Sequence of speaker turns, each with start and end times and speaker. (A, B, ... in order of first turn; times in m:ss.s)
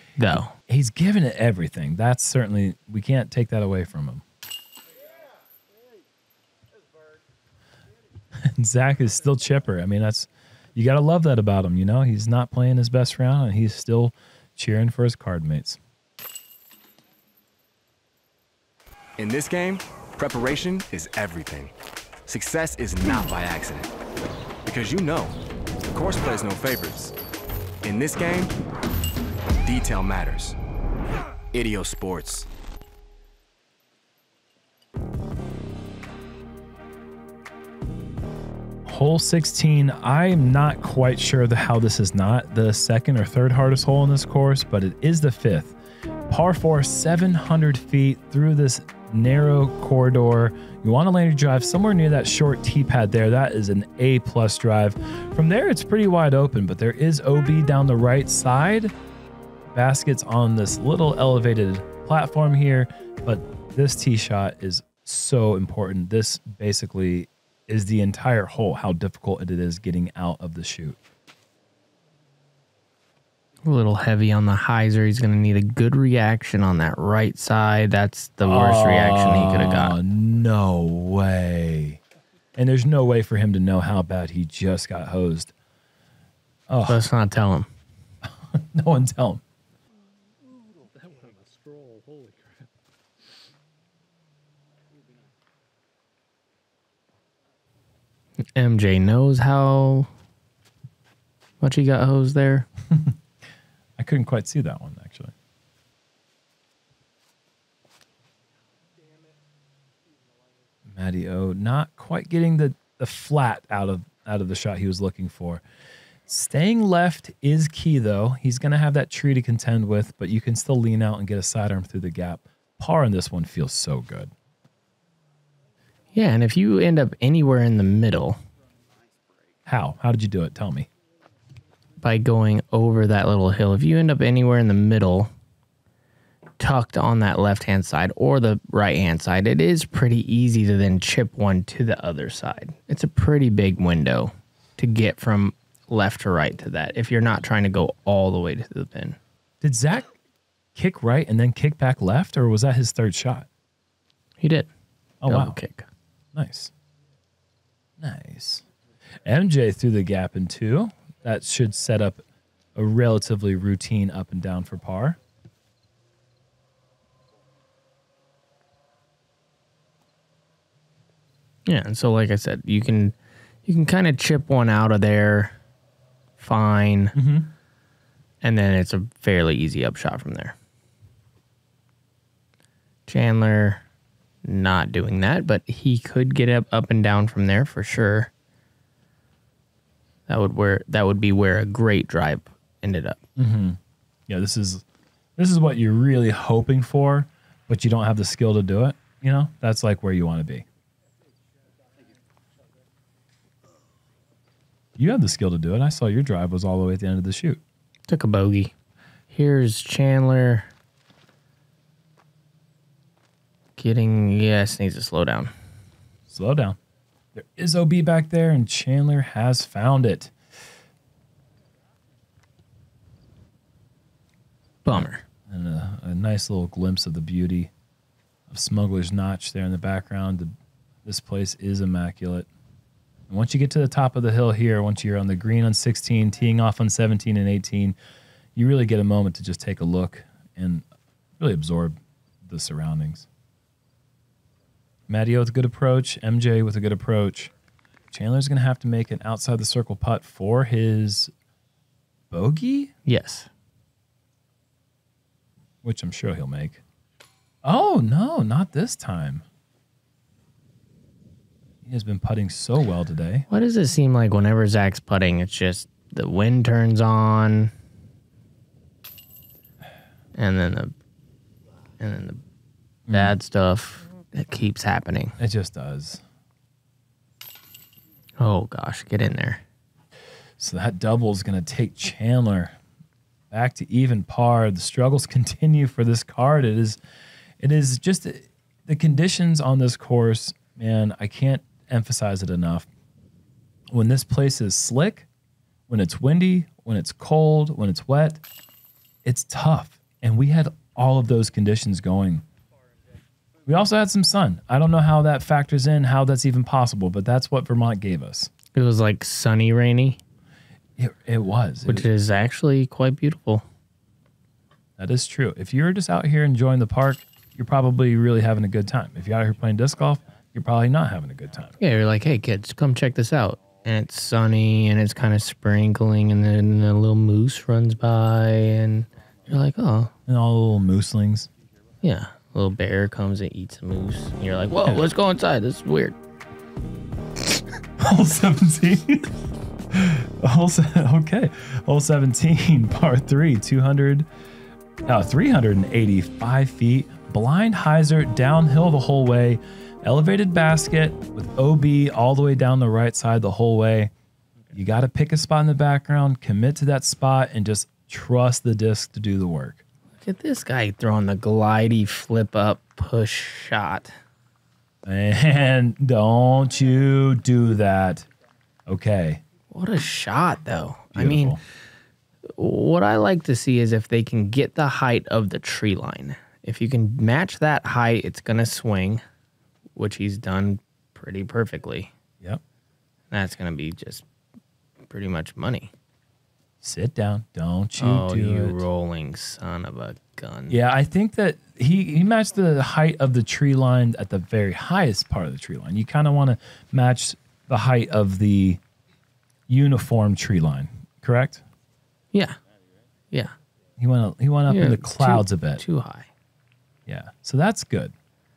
0:00.2-0:00.5 A
0:00.7-0:04.2 B
0:08.3-0:15.8 B
0:19.2-0:21.7 C
0:22.3-0:23.9 C
0:24.6-0:25.3 C
0:25.9-0:27.1 C
0:27.8-0:28.5 C
0:29.6-0:30.6 C
0:31.5-0:32.5 C
0:38.8-0:45.8 B
0:46.3-0:58.9 B
0:59.7-1:11.0 B
1:13.6-1:20.0 A
1:18.4-1:22.0 B
1:22.6-1:25.5 B
1:26.7-1:27.0 B
1:26.8-1:27.7 A
1:28.2-1:29.4 B
1:38.5-1:40.1 A
1:41.6-1:42.7 A
1:42.9-1:43.2 B
1:44.0-1:45.3 B
1:50.9-1:55.6 B
1:56.3-2:04.3 B
2:06.1-2:08.4 A
2:09.6-2:10.9 B
2:12.0-2:15.3 A
2:16.6-2:29.2 A
2:29.6-2:30.1 B
2:30.7-2:33.5 B
2:34.4-2:34.7 A
2:35.2-2:35.6 B
2:35.3-2:35.9 A
2:36.3-2:36.7 B
2:38.0-2:38.6 B
2:39.2-2:42.2 B
2:42.7-2:45.2 B
2:51.7-2:55.6 A
2:56.4-2:57.1 A
2:57.1-2:57.5 B
2:58.4-3:00.6 A
3:03.1-3:03.8 A
3:04.4-3:08.3 A
3:10.3-3:13.2 A
3:13.4-3:14.8 B
3:15.4-3:20.6 B
3:25.0-3:27.6 B
3:28.1-3:28.7 A
3:29.3-3:30.7 A
3:33.8-3:35.5 A
3:36.3-3:36.8 B
3:37.3-3:40.3 B
3:44.8-3:45.2 A
3:44.9-3:47.7 B
3:48.5-3:50.5 B
3:51.0-3:52.5 B
3:53.3-3:57.9 B
3:58.5-4:00.8 B
4:01.4-4:03.3 B
4:05.1-4:07.5 B
4:08.1-4:11.3 B
4:12.3-4:12.9 B
4:13.0-4:13.5 A
4:15.8-4:16.8 B
4:17.6-4:19.4 B
4:21.8-4:23.4 B
4:23.5-4:27.7 A
4:30.3-4:30.9 A
4:32.0-4:32.4 A
4:33.1-4:33.3 B
4:33.1-4:35.4 A
4:35.4-4:36.2 B
4:38.4-4:39.6 A
4:40.6-4:42.8 B
4:43.5-4:47.0 B
4:47.6-4:52.9 B
4:53.9-4:55.3 B
4:55.9-4:58.4 B
4:59.2-5:02.4 B
5:03.6-5:08.5 B
5:08.7-5:10.2 A
5:11.0-5:12.1 B
5:11.8-5:13.6 A
5:15.0-5:21.7 B
5:21.8-5:30.1 A
5:30.3-5:31.5 B
5:32.0-5:36.2 A
5:38.0-5:39.4 B
5:39.9-5:44.3 B
5:45.1-5:54.1 B
5:54.7-5:59.8 B
6:00.2-6:04.1 A
6:05.0-6:08.3 B
6:08.9-6:09.4 B
6:09.7-6:11.6 A
6:11.1-6:11.6 B
6:12.6-6:19.2 A
6:20.0-6:22.1 A
6:23.3-6:24.2 A
6:25.0-6:25.9 A
6:26.8-6:28.8 B
6:28.0-6:30.8 A
6:30.7-6:38.8 B
6:39.7-6:41.6 B
6:44.0-6:45.8 B
6:44.7-6:46.3 A
6:47.0-6:48.1 B